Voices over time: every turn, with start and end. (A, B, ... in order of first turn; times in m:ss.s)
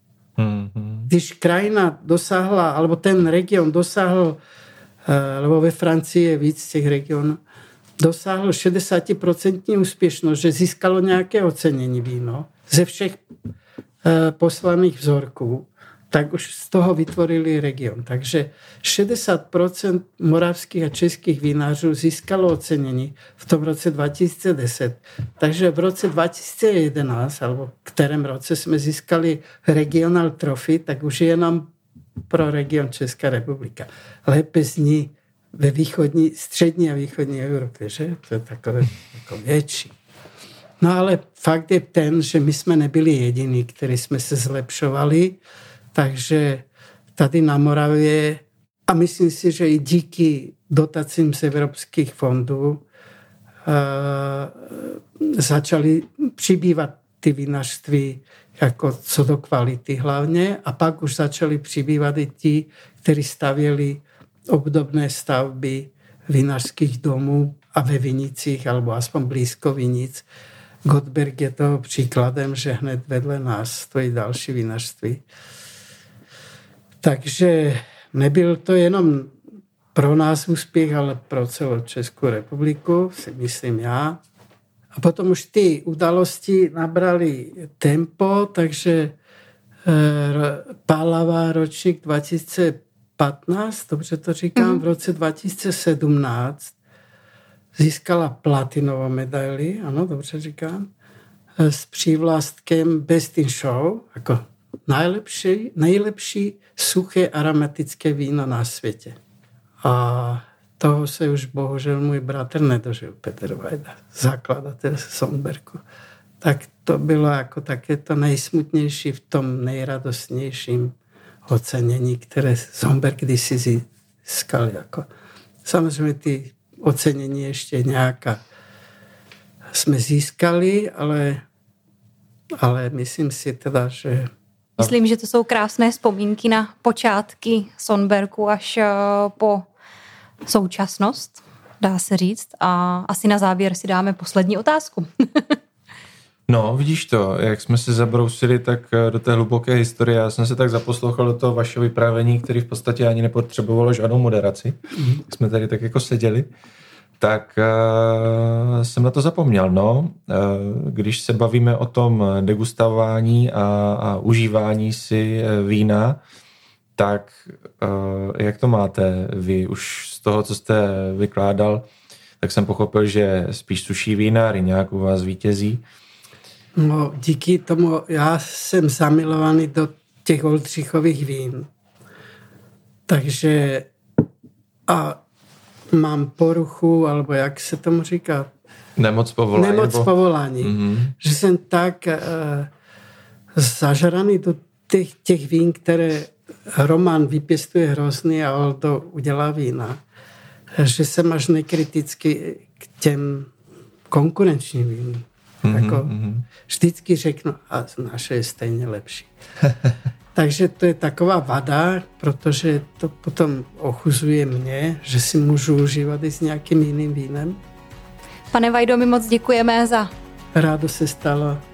0:00.4-0:01.1 A
0:01.1-0:04.4 B
0:05.1-0:07.4 B
0:08.0-0:13.2 B
0:14.0-0:31.7 B
0:32.3-0:39.9 B
0:40.8-0:45.4 B
0:45.9-0:52.8 B
0:53.7-1:10.3 B
1:10.8-1:15.2 B
1:17.0-1:19.3 B
1:20.0-1:24.2 B
1:25.0-1:29.2 B
1:29.9-1:36.8 B
1:37.8-1:40.9 B
1:41.6-1:49.2 B
1:49.8-1:55.8 B
1:56.4-2:01.0 B
2:01.5-2:05.1 B
2:05.6-2:08.4 B
2:09.7-2:11.4 B
2:12.6-2:14.3 B
2:14.8-2:19.7 C
2:20.4-2:25.6 C
2:26.5-2:36.5 A
2:37.2-2:46.2 A
2:47.0-2:51.9 A
2:52.4-2:55.8 A
2:56.8-3:01.7 B
3:03.1-3:03.9 B
3:04.9-3:05.2 B
3:05.9-3:08.5 B
3:09.0-3:10.1 A
3:09.5-3:12.7 B
3:10.6-3:11.1 A
3:13.6-3:20.0 B
3:20.8-3:23.5 B
3:24.1-3:29.3 B
3:25.6-3:26.5 A
3:30.4-3:37.6 B
3:38.5-3:40.1 C
3:40.6-3:41.6 B